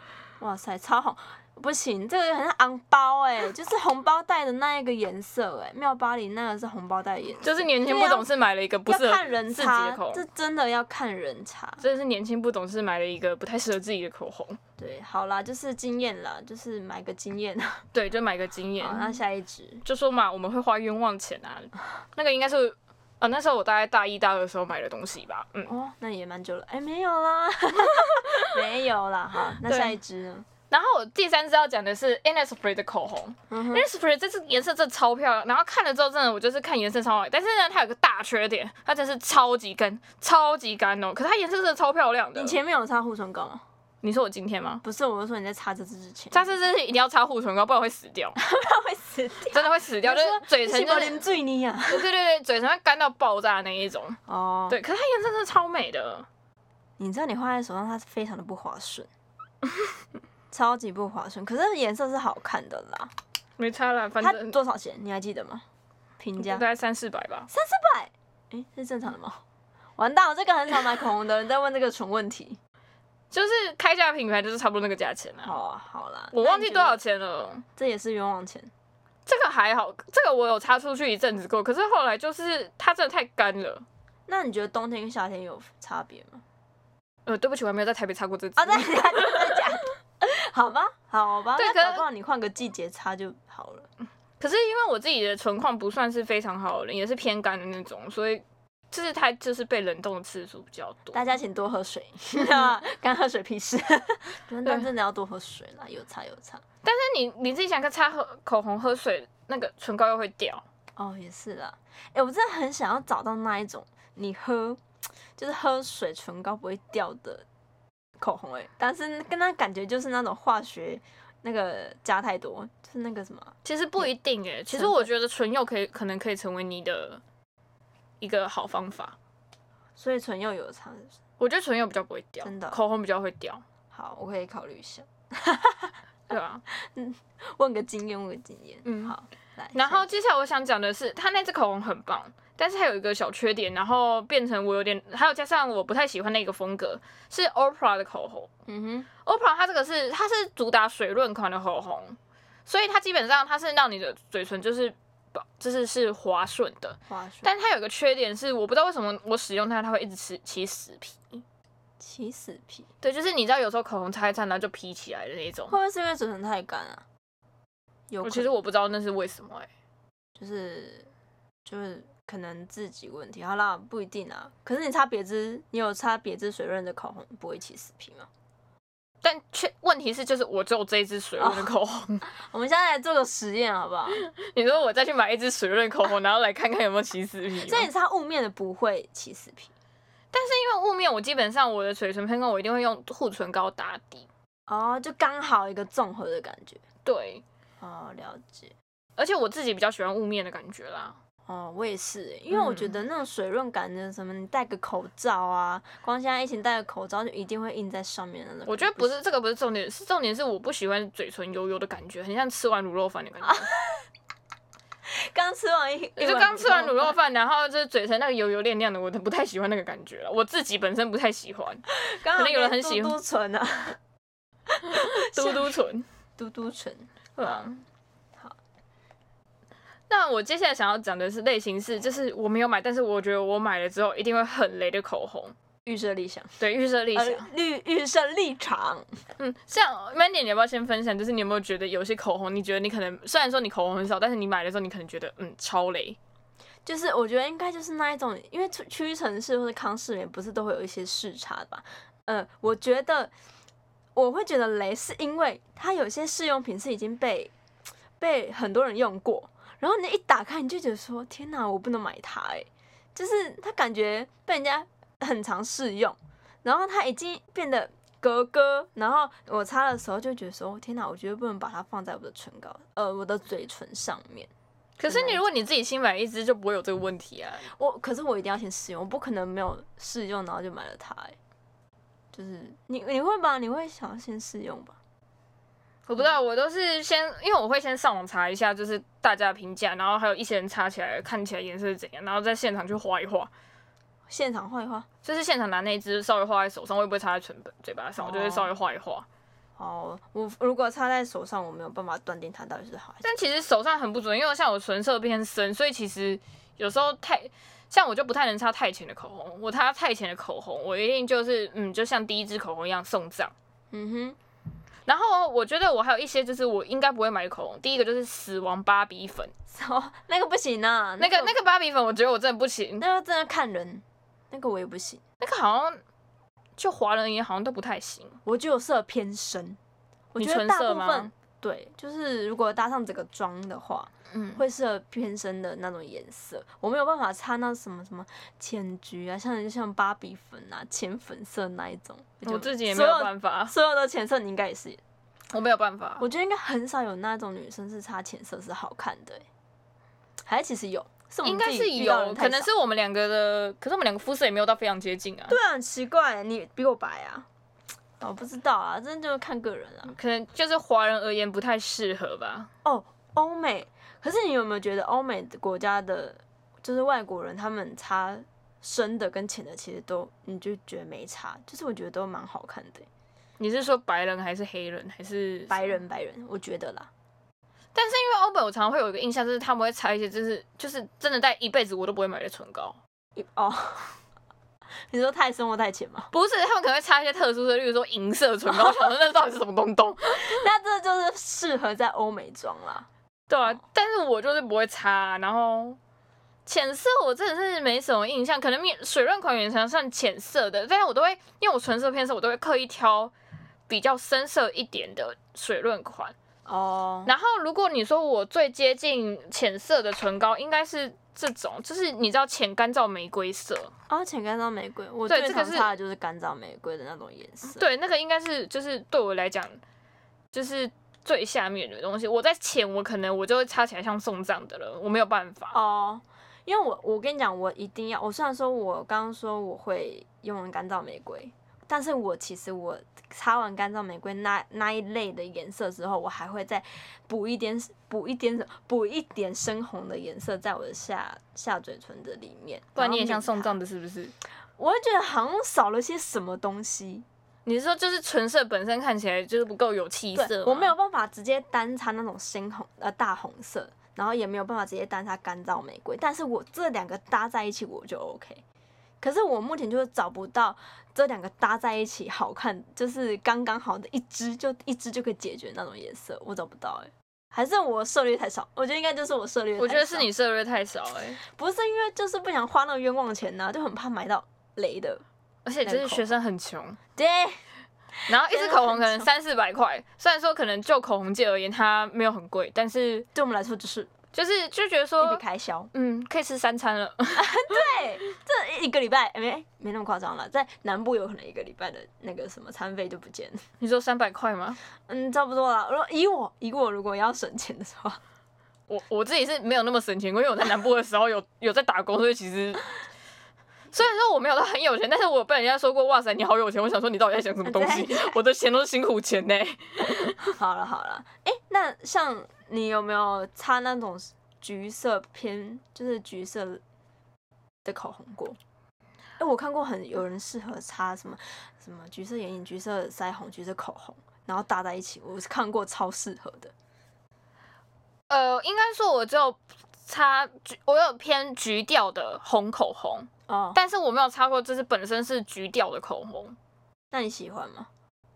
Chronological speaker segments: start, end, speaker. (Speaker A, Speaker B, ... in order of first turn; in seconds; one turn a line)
Speaker A: 0.4-8.3
Speaker B: 7.4-10.2
Speaker A: 8.9-11.8
Speaker B: 11.8-14.6
Speaker A: 14.8-17.8
Speaker B: 17.9-19.2
Speaker A: 18.8-19.8
Speaker B: 19.8-25.7
Speaker A: 25.7-30.5
Speaker B: 28.1-28.5
Speaker B: 29.6-29.9
Speaker B: 30.7-42.6
Speaker A: 33.5-33.9
Speaker A: 42.3-43.6
Speaker B: 44.0-44.8
Speaker A: 44.8-46.6
Speaker B: 46.3-48.4
Speaker A: 48.4-52.1
Speaker B: 49.5-51.2
Speaker B: 51.9-54.2
Speaker A: 54.3-54.8
Speaker B: 54.7-56.3
Speaker A: 57.0-59.1
Speaker A: 60.5-63.1
Speaker B: 63.6-64.5
Speaker A: 64.2-65.6
Speaker A: 66.2-66.6
Speaker B: 66.4-67.5
Speaker A: 67.5-69.4
Speaker A: 70.0-72.6
Speaker B: 73.3-75.5
Speaker A: 75.4-77.0
Speaker B: 76.3-77.6
Speaker A: 77.8-78.7
Speaker B: 79.2-83.8
Speaker A: 84.3-86.4
Speaker B: 87.2-89.6
Speaker A: 88.6-93.9
Speaker B: 91.5-92.0
Speaker B: 94.4-101.2
Speaker A: 101.1-106.6
Speaker B: 106.8-110.6
Speaker A: 111.0-114.8
Speaker A: 115.4-117.5
Speaker A: 118.2-124.1
Speaker B: 123.6-127.2
Speaker A: 124.7-125.1
Speaker B: 128.2-129.2
Speaker A: 130.0-131.1
Speaker B: 131.4-133.6
Speaker A: 132.4-132.8
Speaker A: 133.9-135.9
Speaker B: 136.3-136.6
Speaker A: 136.7-140.1
Speaker B: 138.8-139.1
Speaker B: 139.7-148.5
Speaker A: 148.7-149.1
Speaker B: 149.2-161.4
Speaker A: 157.1-157.5
Speaker A: 162.0-162.9
Speaker B: 163.0-165.8
Speaker A: 165.7-167.0
Speaker A: 168.1-168.5
Speaker B: 168.2-169.7
Speaker A: 170.4-171.1
Speaker A: 171.7-178.3
Speaker B: 179.2-182.2
Speaker A: 181.4-181.7
Speaker A: 182.2-184.2
Speaker B: 184.1-187.9
Speaker A: 187.6-189.7
Speaker B: 190.3-194.3
Speaker A: 194.7-196.8
Speaker B: 197.0-197.4
Speaker A: 197.8-198.7
Speaker B: 199.2-201.2
Speaker A: 201.5-209.1
Speaker B: 202.5-202.9
Speaker B: 208.7-213.7
Speaker A: 213.4-214.0
Speaker A: 215.1-217.1
Speaker B: 216.2-223.2
Speaker A: 221.9-224.0
Speaker A: 224.7-225.8
Speaker B: 224.8-226.1
Speaker A: 226.4-227.7
Speaker B: 227.4-227.8
Speaker B: 230.1-235.5
Speaker A: 235.8-236.6
Speaker B: 236.6-237.5
Speaker A: 237.1-239.1
Speaker B: 239.4-246.2
Speaker A: 246.8-253.3
Speaker A: 254.1-257.5
Speaker A: 258.2-274.5
Speaker B: 275.0-277.7
Speaker A: 275.1-275.4
Speaker A: 277.7-281.4
Speaker A: 282.3-285.0
Speaker B: 286.1-293.5
Speaker A: 294.3-295.1
Speaker B: 295.2-299.2
Speaker A: 298.2-298.7
Speaker A: 299.8-303.4
Speaker B: 303.2-313.5
Speaker A: 313.9-314.4
Speaker B: 315.1-319.5
Speaker A: 319.7-321.5
Speaker B: 321.2-323.0
Speaker A: 323.0-325.2
Speaker B: 325.4-326.0
Speaker B: 326.8-328.4
Speaker A: 328.4-329.8
Speaker A: 330.3-345.0
Speaker B: 330.4-331.3
Speaker B: 334.3-334.6
Speaker B: 342.4-343.7
Speaker B: 345.5-346.2
Speaker A: 346.2-349.4
Speaker A: 350.4-352.7
Speaker B: 351.4-355.6
Speaker A: 355.5-357.5
Speaker A: 358.2-360.1
Speaker B: 360.1-362.7
Speaker A: 362.8-373.1
Speaker B: 373.6-376.0
Speaker A: 375.7-377.1
Speaker B: 377.9-383.0
Speaker A: 383.4-384.1
Speaker A: 385.1-386.3
Speaker B: 386.3-390.6
Speaker A: 388.7-389.1
Speaker A: 390.3-393.1
Speaker B: 393.5-396.0
Speaker B: 396.6-403.3
Speaker B: 403.9-406.3
Speaker A: 406.6-407.3
Speaker B: 407.2-413.9
Speaker A: 414.1-417.8
Speaker B: 415.3-415.9
Speaker B: 417.6-419.8
Speaker B: 420.5-425.7
Speaker A: 425.7-443.8
Speaker B: 442.9-444.3
Speaker A: 444.8-447.2
Speaker B: 447.6-450.9
Speaker A: 450.3-458.6
Speaker A: 459.2-470.3
Speaker B: 469.8-471.4
Speaker A: 471.4-475.2
Speaker B: 475.6-477.0
Speaker A: 475.8-476.3
Speaker A: 477.1-477.6
Speaker A: 478.3-479.3
Speaker B: 478.3-483.3
Speaker A: 483.3-484.1
Speaker B: 484.3-488.0
Speaker A: 485.2-485.9
Speaker A: 487.3-493.6
Speaker B: 493.8-494.8
Speaker A: 495.0-498.2
Speaker B: 498.9-502.8
Speaker B: 503.9-510.4
Speaker A: 507.6-508.4
Speaker A: 510.4-516.8
Speaker A: 517.8-518.6
Speaker A: 519.4-526.7
Speaker B: 528.3-536.5
Speaker A: 533.5-533.8
Speaker A: 537.1-537.9